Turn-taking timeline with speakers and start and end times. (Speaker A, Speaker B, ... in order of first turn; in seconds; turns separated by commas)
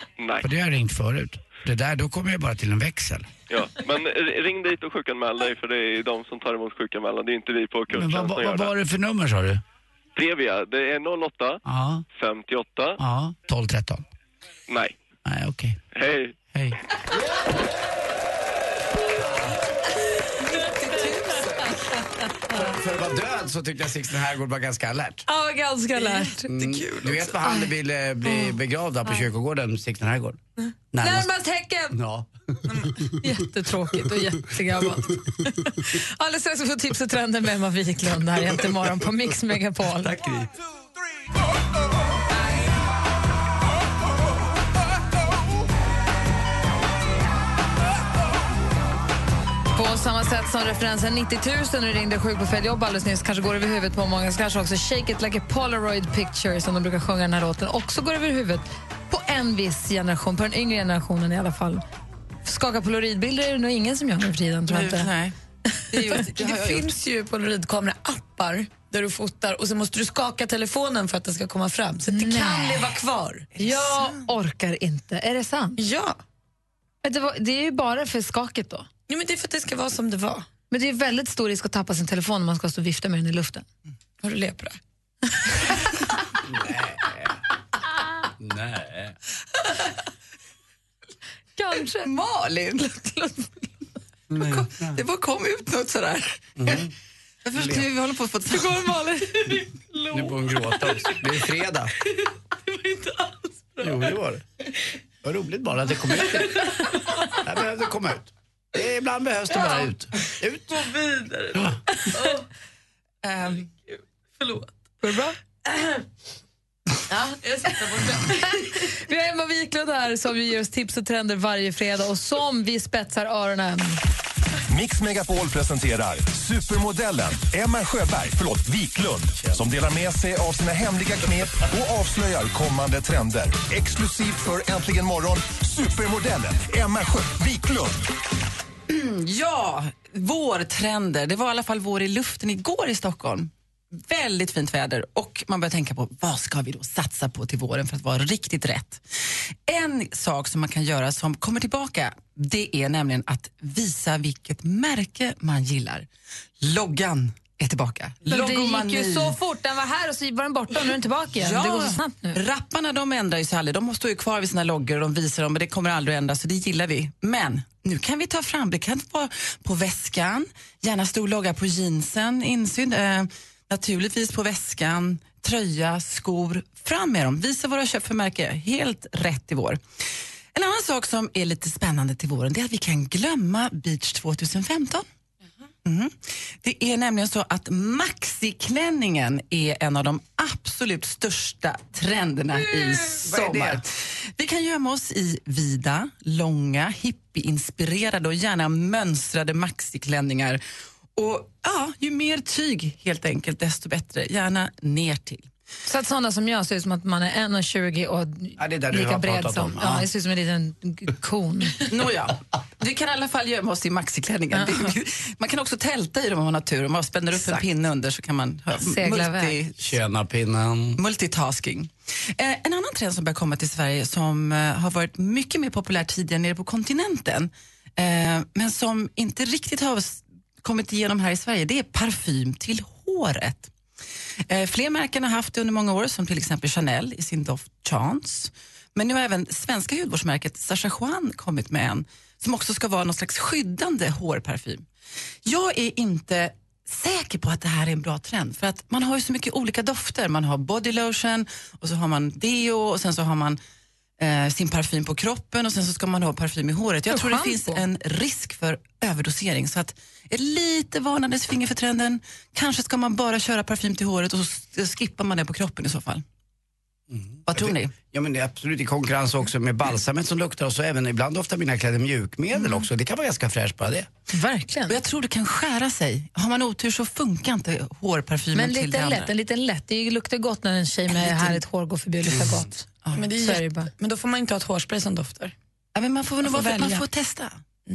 Speaker A: 0.2-0.5, Speaker B: 0.4-3.3, Speaker A: 3.5-8.7, Speaker B: 7.9-9.6, Speaker A: 10.2-11.6, Speaker B: 11.7-12.0, Speaker A: 12.2-13.0, Speaker B: 13.0-14.0, Speaker A: 14.7-15.0, Speaker B: 15.2-15.8, Speaker A: 15.9-16.4, Speaker B: 16.5-16.8, Speaker B: 22.6-25.2, Speaker C: 25.3-26.5, Speaker D: 25.9-27.5, Speaker B: 26.5-30.4, Speaker B: 30.9-31.3, Speaker C: 31.0-32.0, Speaker B: 31.9-32.3, Speaker C: 33.0-40.2, Speaker B: 40.0-40.5, Speaker C: 49.7-61.8, Speaker C: 62.5-65.1, Speaker E: 64.7-65.3, Speaker E: 65.9-67.0, Speaker D: 66.3-73.5, Speaker C: 72.1-72.9, Speaker E: 73.5-74.2, Speaker C: 73.6-75.8, Speaker D: 75.8-76.2, Speaker C: 77.0-78.9, Speaker D: 79.1-80.5, Speaker C: 80.7-83.7, Speaker D: 84.2-84.8, Speaker B: 86.5-87.4, Speaker B: 88.4-89.2, Speaker C: 91.6-92.1, Speaker E: 92.0-92.9, Speaker C: 92.9-93.6, Speaker B: 94.3-95.0, Speaker E: 94.3-96.8, Speaker B: 96.6-96.9, Speaker E: 97.5-98.9, Speaker B: 97.6-97.9, Speaker D: 98.5-101.5, Speaker B: 100.1-101.9, Speaker D: 102.0-104.2, Speaker B: 103.8-104.5, Speaker B: 105.2-106.5, Speaker D: 106.2-107.4, Speaker B: 107.4-110.8, Speaker D: 109.5-109.9, Speaker D: 110.7-112.5, Speaker E: 113.2-113.7, Speaker D: 114.4-114.7, Speaker C: 115.0-115.3, Speaker D: 117.1-118.6, Speaker C: 119.0-124.0, Speaker F: 124.7-138.0, Speaker E: 138.9-156.1, Speaker E: 156.6-159.3, Speaker C: 158.3-162.4, Speaker E: 161.4-179.8, Speaker E: 180.5-185.1, Speaker E: 185.8-200.6, Speaker B: 193.1-193.8, Speaker E: 201.2-205.5, Speaker C: 205.9-211.8, Speaker B: 208.6-210.1, Speaker E: 211.8-220.0, Speaker C: 214.5-214.9, Speaker C: 218.8-219.6, Speaker B: 219.8-221.0, Speaker E: 221.0-233.7, Speaker E: 234.5-244.9, Speaker E: 245.4-253.6, Speaker E: 254.2-266.2, Speaker C: 257.1-257.8, Speaker B: 267.1-274.1, Speaker E: 267.5-267.9, Speaker C: 274.3-275.0, Speaker E: 274.9-279.3, Speaker C: 278.5-282.9, Speaker E: 281.1-281.6, Speaker D: 283.1-285.5, Speaker C: 283.4-283.9, Speaker E: 285.9-287.6, Speaker C: 286.5-287.0